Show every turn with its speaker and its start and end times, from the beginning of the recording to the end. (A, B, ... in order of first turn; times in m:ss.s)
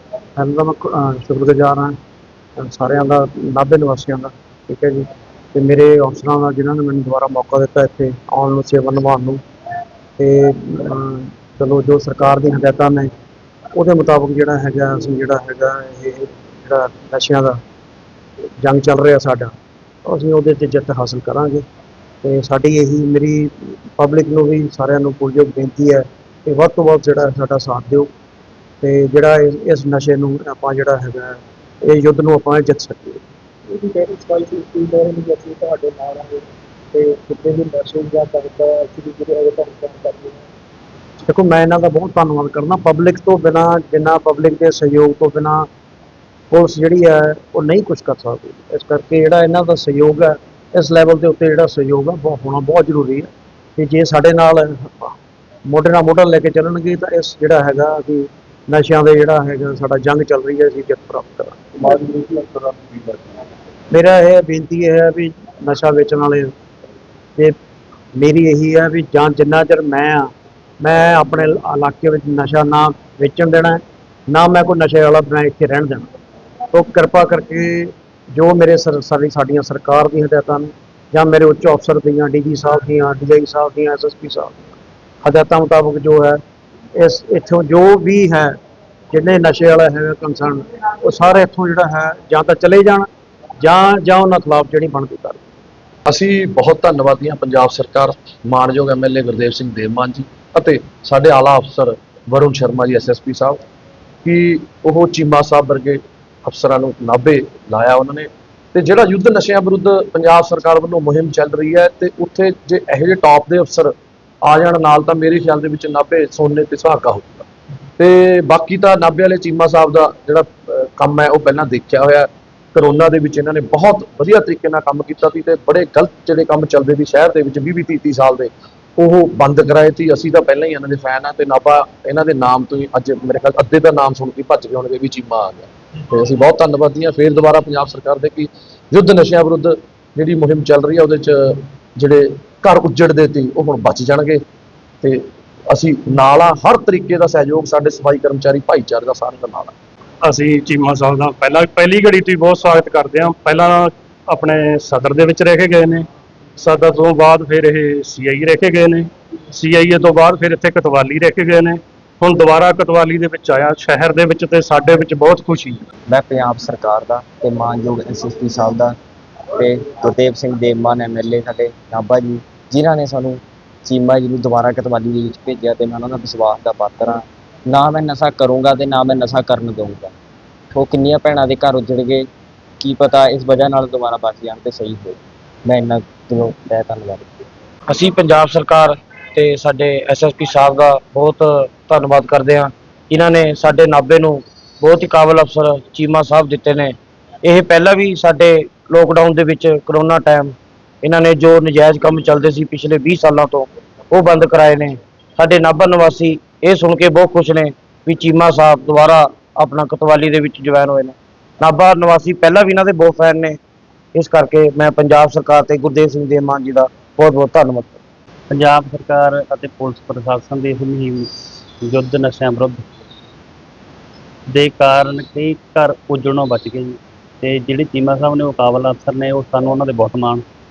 0:00.4-0:02.0 A
0:02.6-0:09.4 A
0:10.2-0:13.1 A
0:13.7-0:17.6 A
0:18.6-0:19.5 A
0:20.0-0:21.6 A
0:22.2-0:28.1 A
0:28.8-0:33.2 A
0:33.7-0:36.4 B
0:36.9-0:40.4 B
0:41.3-0:45.6 A
0:46.5-0:55.1 A
0:55.7-1:01.7 A
1:02.2-1:03.1 B
1:03.9-1:06.5 A
1:08.2-1:16.0 A
1:16.7-1:26.4 A
1:27.0-1:28.5 A
1:29.1-1:33.1 A
1:33.6-1:35.4 A
1:36.1-1:43.6 C
1:44.2-1:53.9 C
1:54.4-1:57.5 C
1:58.0-2:24.4 C
2:25.0-2:29.7 C
2:30.2-2:36.0 D
2:36.6-2:45.8 D
2:46.1-2:49.0 E
2:49.6-3:00.1 E
3:00.7-3:02.3 E
3:02.8-3:07.4 E
3:07.9-3:16.9 F
3:17.4-3:33.6 F
3:34.1-3:38.0 F
3:38.5-3:41.3 G
3:41.8-3:42.8 G
3:44.5-3:50.4 G